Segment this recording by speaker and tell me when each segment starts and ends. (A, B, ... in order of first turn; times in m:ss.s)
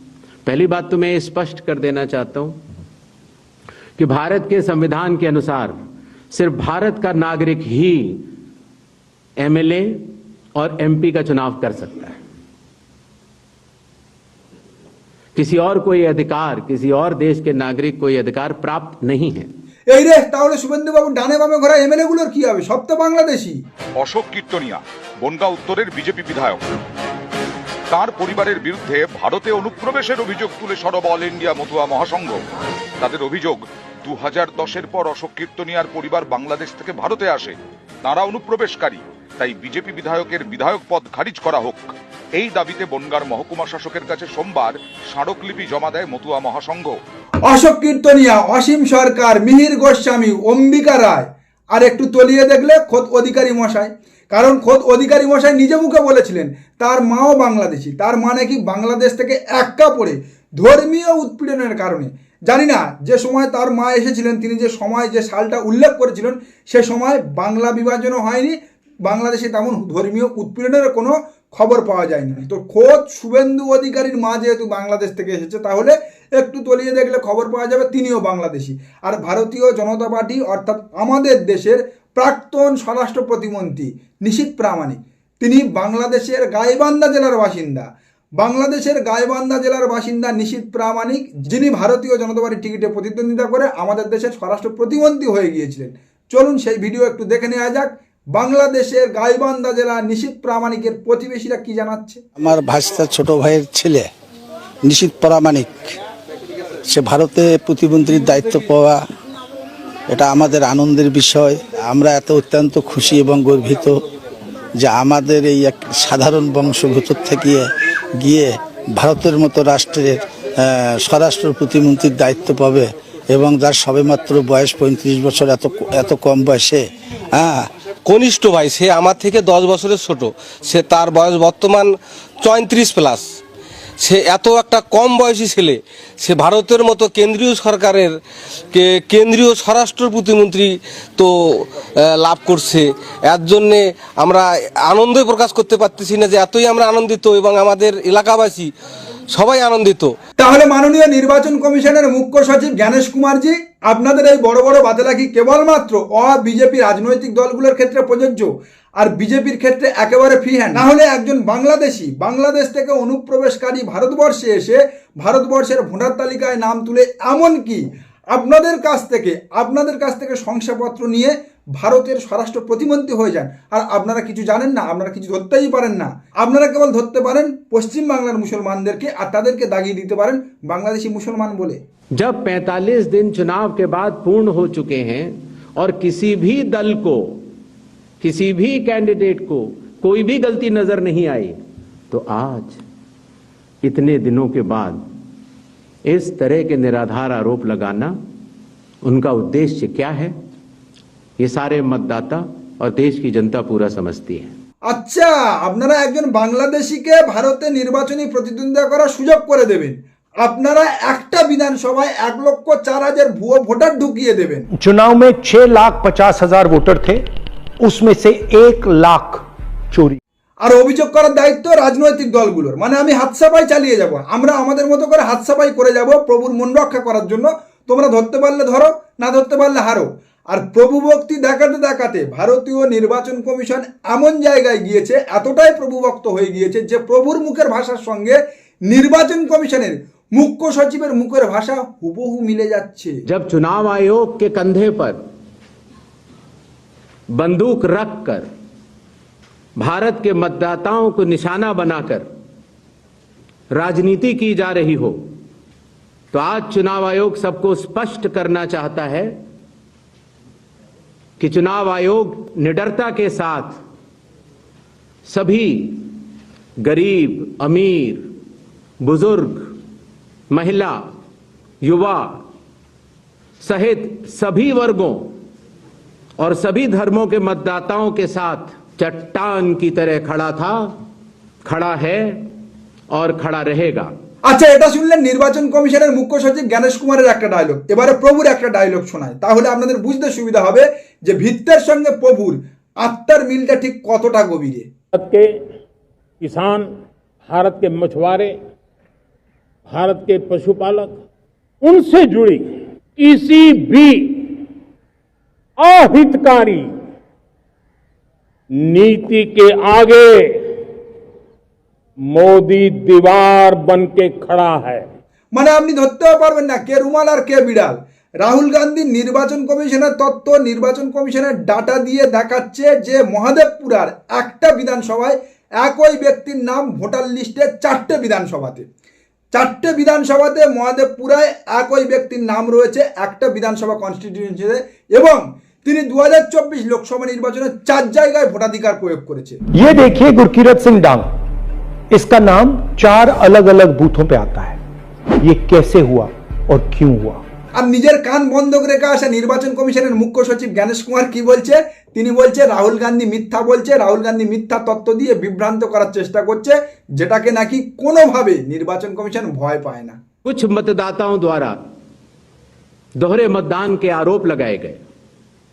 0:00.4-0:02.6 A
0:04.0-0:05.8 A
0:06.3-0:08.3 A
0:09.4-0:12.2 A
0:15.4-0:19.5 A
0:19.9-0:23.6 B
0:24.0-0:26.7 C
0:27.9-0:32.4 C
0:33.0-0:47.0 C
0:47.4-1:27.9 B
1:28.4-1:42.2 B
1:42.4-1:44.1 D
1:44.8-1:45.9 D
1:46.9-1:49.0 D
1:50.1-1:54.0 D
1:54.8-2:07.7 D
2:08.0-2:13.3 E
2:14.0-2:18.2 E
2:18.7-2:21.7 E
2:22.2-2:28.7 E
2:29.3-2:30.2 E
2:30.4-3:01.8 B
3:02.2-3:07.4 A
3:08.2-3:11.6 A
3:12.1-3:12.8 A
3:13.8-3:15.0 A
3:16.1-3:18.2 A
3:19.0-3:20.3 A
3:21.4-3:24.5 A
3:24.8-3:34.7 B
3:34.7-3:37.2 F
3:37.8-3:40.2 F
3:40.6-4:03.2 B
4:03.3-4:05.2 A
4:07.4-4:08.5 A
4:09.8-4:12.3 A
4:13.7-4:15.3 A
4:16.3-4:19.4 A
4:21.4-4:23.8 A
4:25.3-4:26.2 A
4:26.8-4:28.3 A
4:29.0-4:29.8 A
4:30.5-4:31.0 A
4:31.8-4:32.4 A
4:33.6-4:35.4 A
4:36.4-4:41.0 A
4:41.6-4:42.5 A
4:43.1-4:44.1 A
4:44.4-4:54.9 B
4:55.2-4:55.5 G
4:56.4-4:56.9 G
4:57.5-4:58.6 G
4:59.9-5:01.2 G
5:01.8-5:04.6 G
5:05.8-5:06.9 G
5:08.8-5:10.8 G
5:12.3-5:15.0 G
5:15.5-5:28.8 B
5:29.5-5:39.6 B
5:39.7-5:41.3 F
5:42.1-5:44.8 F
5:45.4-5:47.4 F
5:47.8-6:00.2 B
6:00.4-6:01.8 A
6:03.2-6:05.0 A